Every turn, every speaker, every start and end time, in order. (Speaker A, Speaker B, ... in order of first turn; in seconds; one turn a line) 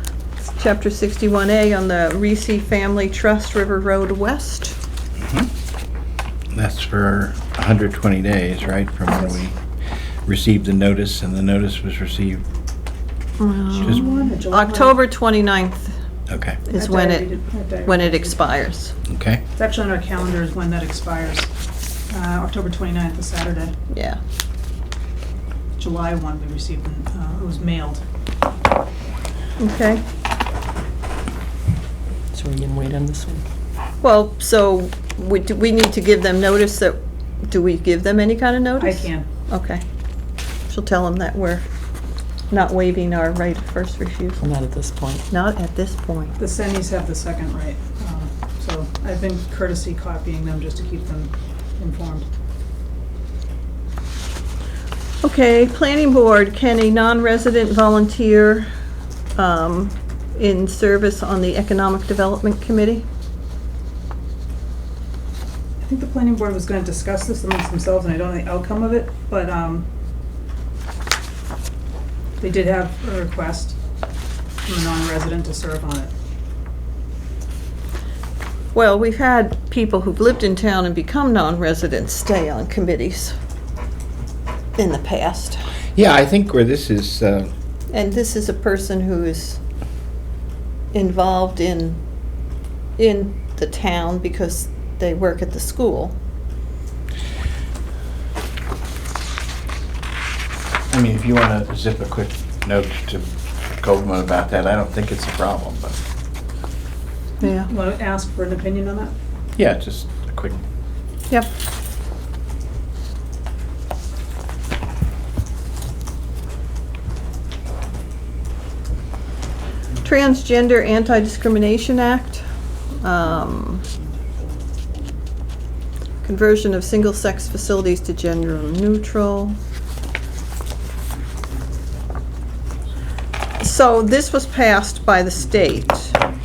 Speaker A: 0.4-4.8
Speaker B: 6.5-9.6
Speaker C: 9.1-9.3
Speaker B: 10.2-12.4
Speaker A: 13.4-15.9
Speaker C: 13.7-15.0
Speaker B: 16.3-16.6
Speaker A: 16.6-17.3
Speaker C: 16.7-18.4
Speaker A: 17.8-18.9
Speaker B: 19.1-19.4
Speaker C: 19.6-21.5
Speaker C: 22.1-23.7
Speaker A: 23.9-24.2
Speaker C: 25.8-28.0
Speaker A: 29.6-30.0
Speaker D: 32.3-33.4
Speaker A: 34.0-39.8
Speaker C: 38.8-39.3
Speaker A: 40.7-41.6
Speaker A: 42.5-44.4
Speaker D: 44.4-45.2
Speaker A: 45.3-46.4
Speaker C: 46.4-52.2
Speaker A: 55.2-58.7
Speaker A: 59.4-63.0
Speaker C: 65.8-69.8
Speaker C: 72.4-73.8
Speaker C: 74.7-76.1
Speaker A: 78.7-83.3
Speaker A: 84.8-85.6
Speaker B: 85.9-87.5
Speaker A: 87.9-89.6
Speaker A: 90.9-92.0
Speaker A: 93.0-96.2
Speaker B: 100.9-103.3
Speaker B: 103.8-106.0
Speaker C: 107.4-109.1
Speaker A: 107.4-107.7
Speaker B: 109.5-110.6
Speaker A: 120.0-122.4
Speaker A: 123.0-123.8
Speaker A: 126.2-129.6
Speaker A: 133.6-136.2